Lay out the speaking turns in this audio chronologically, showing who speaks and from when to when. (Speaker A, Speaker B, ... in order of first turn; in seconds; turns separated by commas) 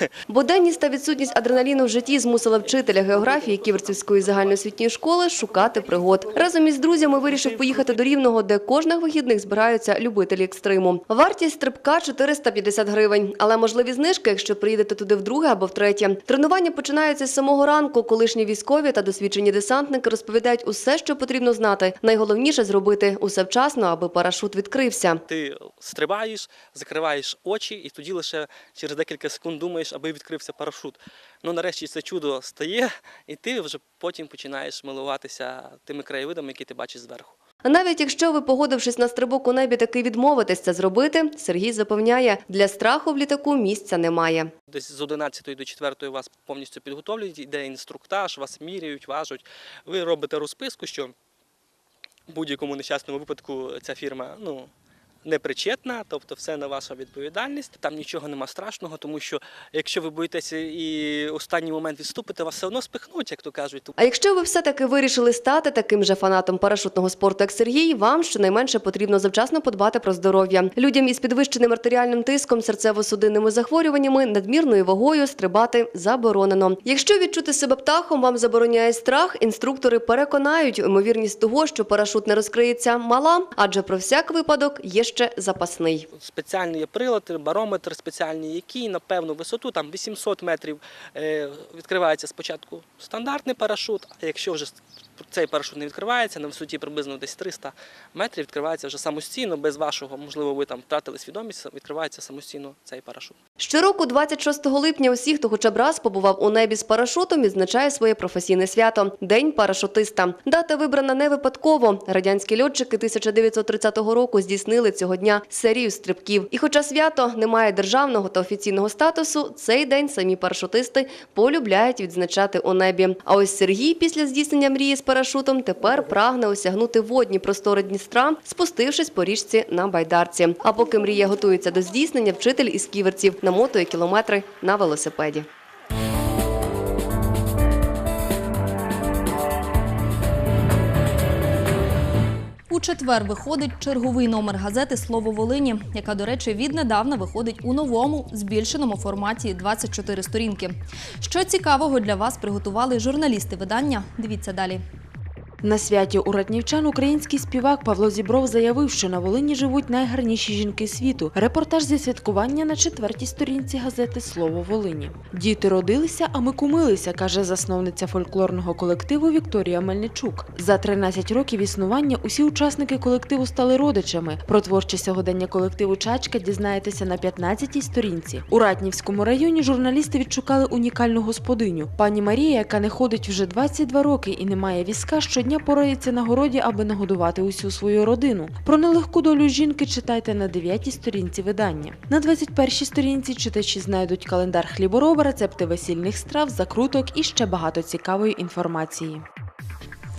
Speaker A: 0.3-25.2, Speaker B: 25.3-37.3, Speaker A: 37.6-44.5, Speaker B: 44.7-51.1, Speaker B: 52.3-54.7, Speaker B: 55.2-63.9, Speaker A: 64.0-86.0, Speaker B: 86.2-103.3, Speaker A: 103.6-135.4, Speaker C: 142.7-154.8, Speaker D: 155.6-199.2